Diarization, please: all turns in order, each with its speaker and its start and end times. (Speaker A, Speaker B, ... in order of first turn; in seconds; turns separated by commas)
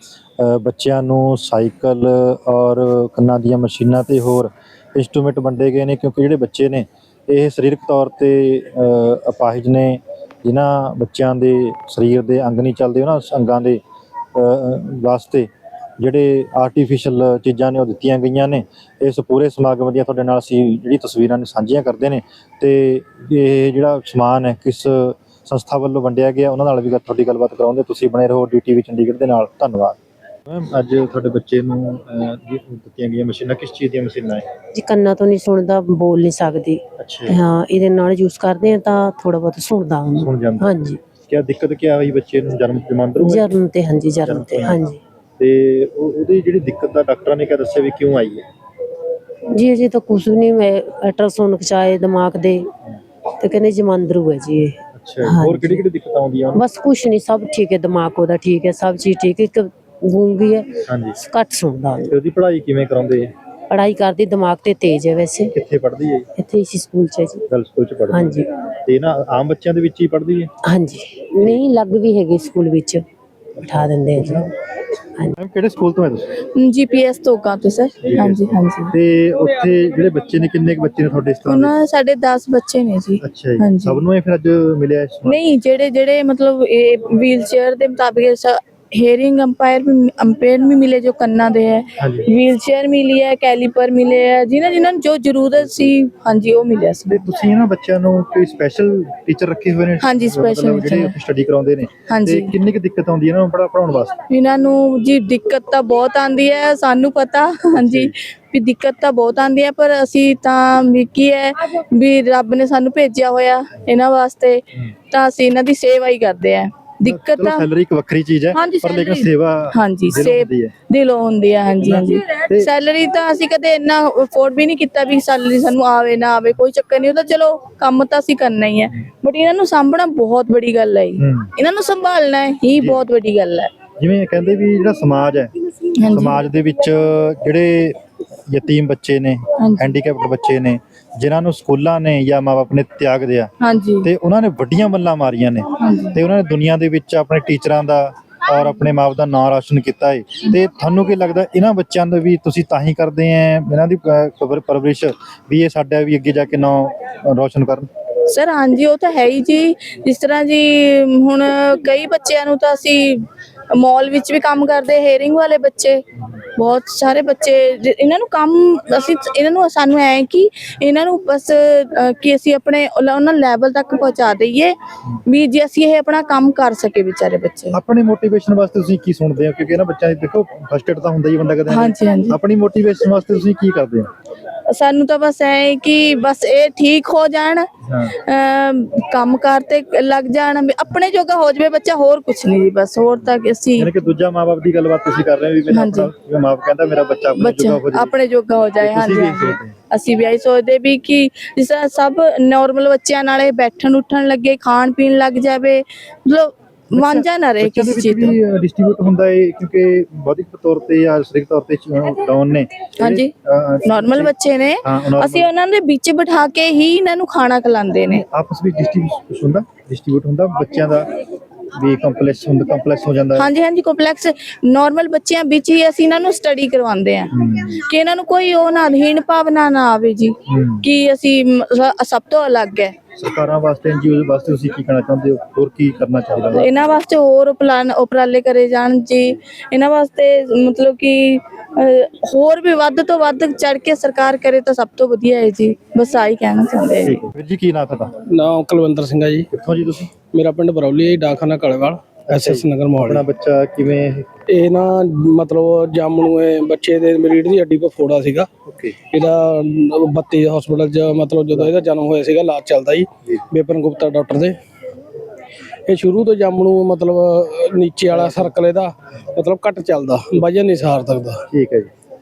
Speaker A: 0.4-13.8, Speaker A: 14.4-15.5, Speaker A: 16.0-34.5, Speaker B: 34.7-41.0, Speaker A: 37.0-37.4, Speaker A: 40.2-43.5, Speaker B: 43.2-45.0, Speaker A: 44.2-44.8, Speaker A: 45.4-48.4, Speaker B: 49.5-52.7, Speaker B: 53.4-55.8, Speaker A: 55.0-56.6, Speaker B: 56.5-62.1, Speaker A: 60.9-61.2, Speaker A: 62.1-63.3, Speaker B: 63.7-65.5, Speaker A: 65.5-66.3, Speaker B: 66.4-67.4, Speaker A: 67.5-70.5, Speaker B: 68.1-68.5, Speaker B: 70.6-73.0, Speaker A: 73.6-74.5, Speaker B: 73.6-74.5, Speaker A: 75.4-76.4, Speaker C: 76.5-78.9, Speaker A: 78.0-81.7, Speaker C: 81.5-84.0, Speaker A: 83.2-85.4, Speaker C: 85.3-97.2, Speaker A: 92.0-92.3, Speaker A: 95.6-95.9, Speaker A: 97.1-104.2, Speaker C: 100.0-101.1, Speaker C: 102.1-102.5, Speaker C: 104.3-117.7, Speaker A: 107.8-108.1, Speaker A: 117.0-120.7, Speaker C: 118.5-133.7, Speaker A: 121.8-122.7, Speaker A: 131.2-131.5, Speaker A: 132.8-133.0, Speaker A: 134.0-135.5, Speaker C: 136.0-136.4, Speaker A: 136.1-143.5, Speaker C: 139.6-140.0, Speaker C: 143.6-144.1, Speaker A: 144.0-157.9, Speaker C: 145.8-146.2, Speaker C: 158.3-177.8, Speaker A: 177.7-184.1, Speaker C: 181.7-182.4, Speaker C: 184.7-193.9, Speaker A: 187.9-188.2, Speaker A: 193.8-198.1, Speaker C: 195.7-196.1, Speaker C: 197.3-208.4, Speaker A: 198.8-199.8, Speaker A: 206.9-214.3, Speaker C: 213.0-213.3, Speaker C: 213.9-218.2, Speaker A: 214.8-215.5, Speaker A: 218.3-221.1, Speaker A: 221.7-223.5, Speaker C: 223.4-233.0, Speaker A: 227.3-227.7, Speaker A: 230.5-230.9, Speaker A: 233.2-236.7, Speaker C: 236.5-247.2, Speaker A: 247.0-248.1, Speaker D: 248.3-249.5, Speaker A: 249.5-250.1, Speaker D: 250.3-253.2, Speaker A: 252.3-254.4, Speaker D: 254.5-258.5, Speaker A: 258.7-258.9, Speaker D: 259.0-264.6, Speaker D: 265.9-271.4, Speaker A: 268.1-268.5, Speaker A: 271.5-271.9